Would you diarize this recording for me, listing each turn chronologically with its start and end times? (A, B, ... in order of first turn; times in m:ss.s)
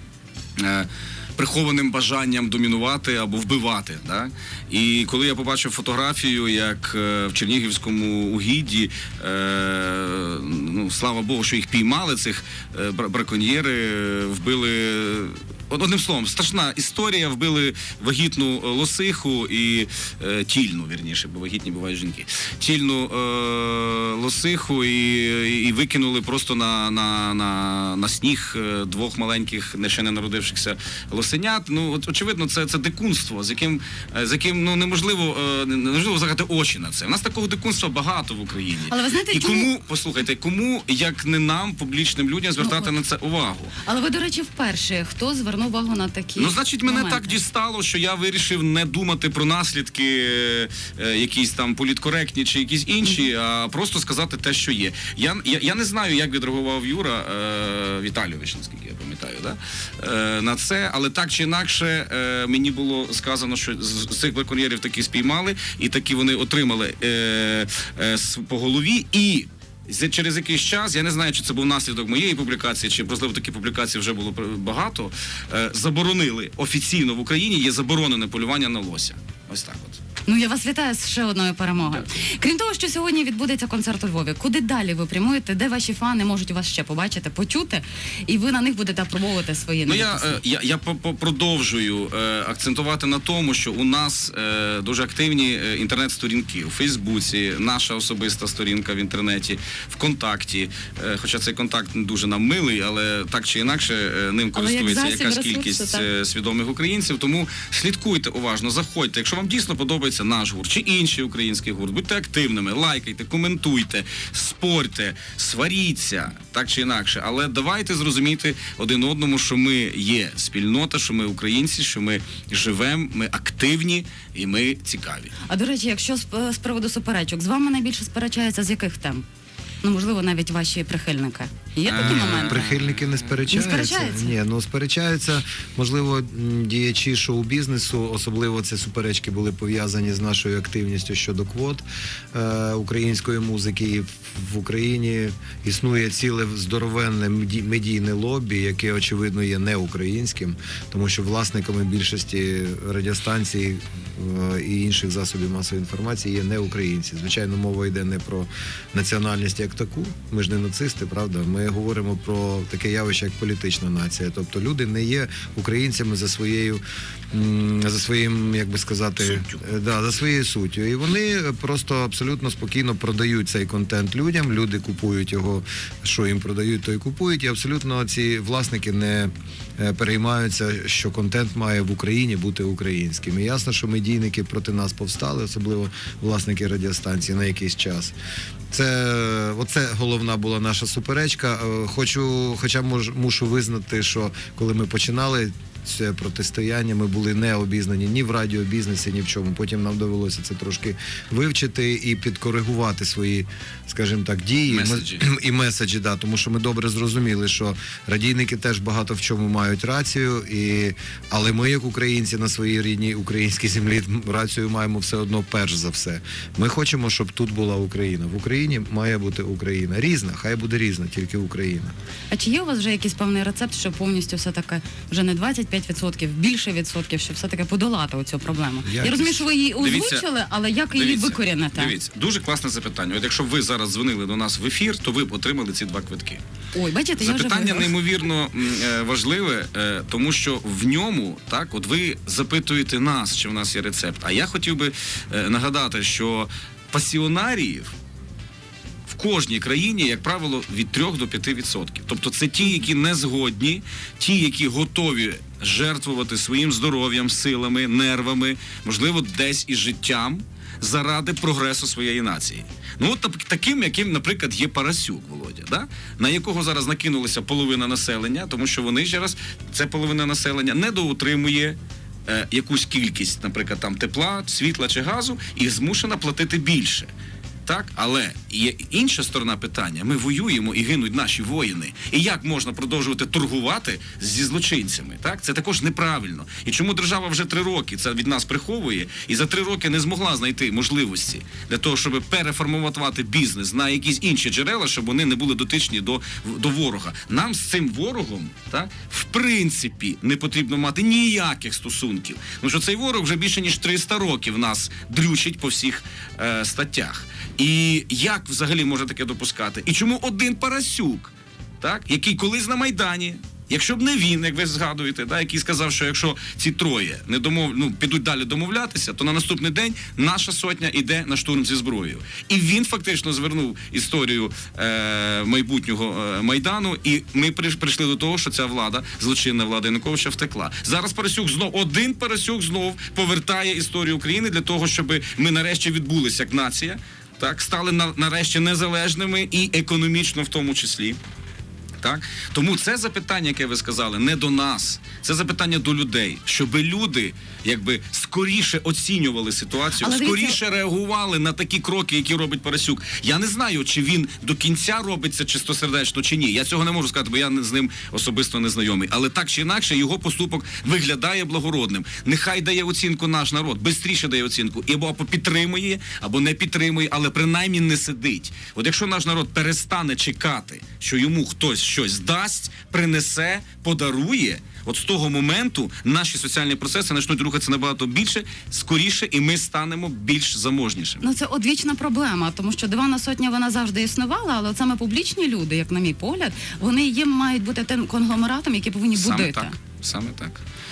0:00.6-0:43.7 A
0:38.9-0:39.7 B
0:42.6-0:42.9 B
0:43.8-0:47.4 B
0:46.4-1:20.0 A
1:20.2-1:30.4 B
1:29.9-2:05.3 A
1:44.5-1:46.1 B
2:05.5-2:09.2 B
2:09.8-2:12.6 B
2:11.9-2:13.4 A
2:12.0-3:08.1 C
2:13.5-2:14.4 B
2:49.2-2:49.6 A
3:08.7-3:41.9 C
3:24.7-3:25.2 A
3:42.3-3:51.9 B
3:48.8-3:49.4 C
3:49.8-3:50.3 A
3:50.9-3:56.4 A
3:56.7-3:57.9 B
3:57.2-4:07.9 A
4:09.1-4:37.1 A
4:37.7-5:41.2 A
5:42.0-6:21.2 A
5:50.0-5:50.6 B
6:21.2-6:29.8 B
6:29.2-6:30.6 A